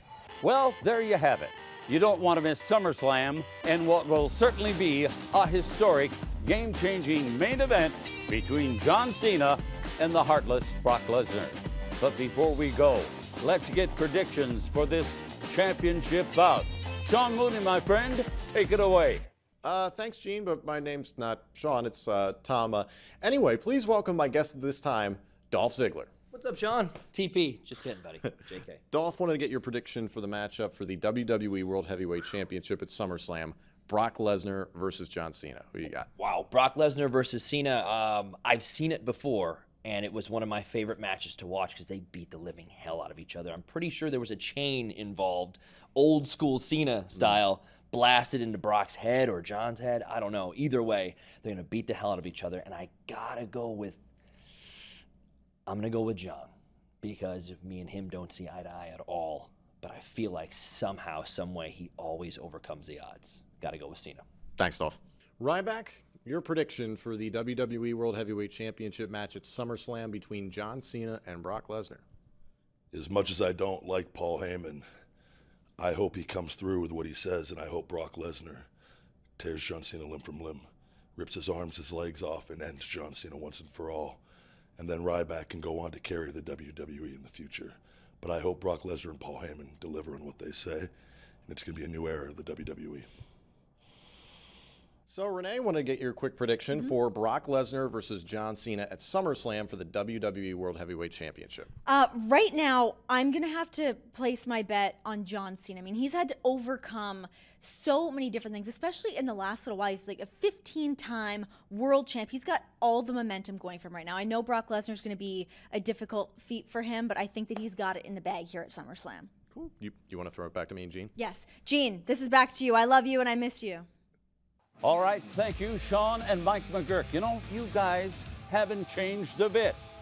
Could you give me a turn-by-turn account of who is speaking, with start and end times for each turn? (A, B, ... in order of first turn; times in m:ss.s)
0:00.4-0:19.3 A
0:19.6-0:26.1 B
0:26.3-0:28.8 C
0:28.9-0:36.1 B
0:36.1-0:54.0 C
0:55.7-1:04.2 C
1:04.6-1:12.0 B
1:12.9-1:14.8 D
1:15.8-1:18.7 D
1:19.4-1:24.2 D
1:24.8-1:30.9 D
1:31.4-1:33.1 D
1:35.1-1:41.7 B
1:41.8-1:59.3 E
1:59.5-2:01.1 B
2:01.2-2:03.9 E
2:04.8-2:09.8 A